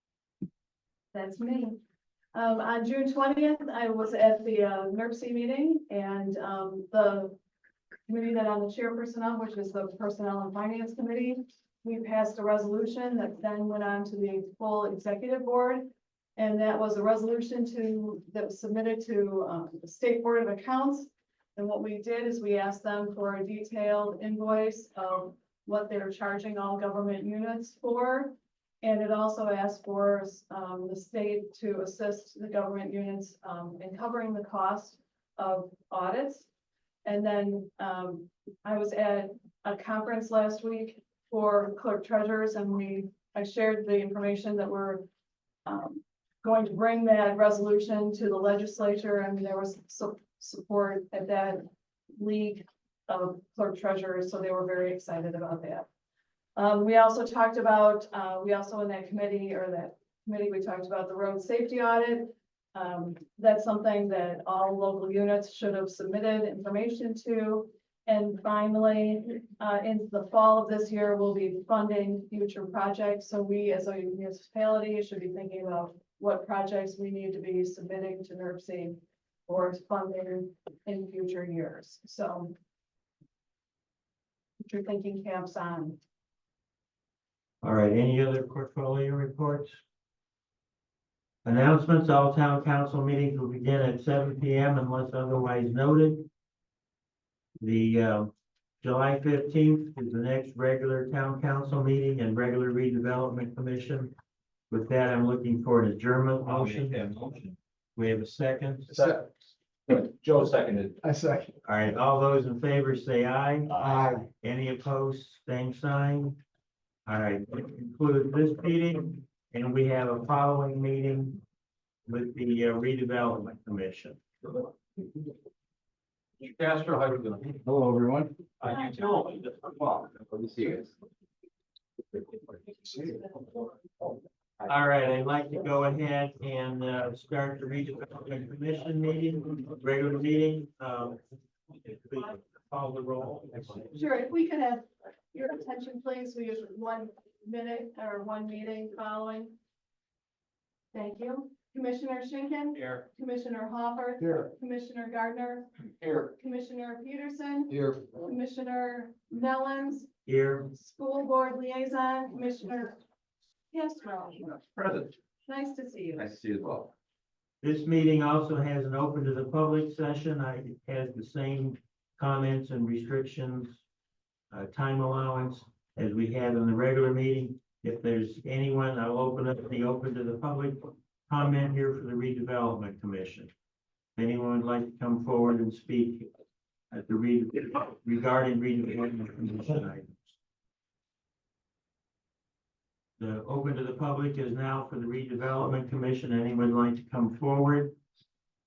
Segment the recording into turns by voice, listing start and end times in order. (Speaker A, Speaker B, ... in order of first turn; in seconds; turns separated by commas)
Speaker A: 1.1-1.8, Speaker A: 2.3-7.4, Speaker A: 8.1-36.5, Speaker A: 37.0-45.1, Speaker A: 45.7-55.9, Speaker A: 56.5-82.5, Speaker A: 84.6-86.0, Speaker B: 87.6-89.8, Speaker B: 91.5-96.3, Speaker B: 97.6-104.1, Speaker B: 104.7-107.0, Speaker C: 106.4-107.6, Speaker B: 108.0-108.9, Speaker D: 108.9-109.3, Speaker C: 109.9-111.0, Speaker D: 111.0-111.6, Speaker B: 111.7-113.7, Speaker C: 113.7-114.1, Speaker D: 113.8-114.3, Speaker B: 114.4-116.4, Speaker B: 117.1-121.4, Speaker B: 122.1-124.2, Speaker C: 126.4-127.6, Speaker D: 127.8-128.1, Speaker C: 128.6-130.9, Speaker B: 134.7-141.2, Speaker B: 141.8-143.9, Speaker A: 143.9-149.6, Speaker A: 150.9-155.7, Speaker D: 154.2-154.5, Speaker A: 156.4-160.1, Speaker D: 157.7-158.1, Speaker B: 160.3-160.7, Speaker A: 160.7-163.0, Speaker A: 163.7-164.7, Speaker C: 164.7-165.1, Speaker A: 165.5-166.3, Speaker C: 166.2-166.9, Speaker B: 167.6-173.8, Speaker B: 174.5-183.5, Speaker B: 184.2-186.3, Speaker B: 186.9-190.4, Speaker B: 193.2-197.9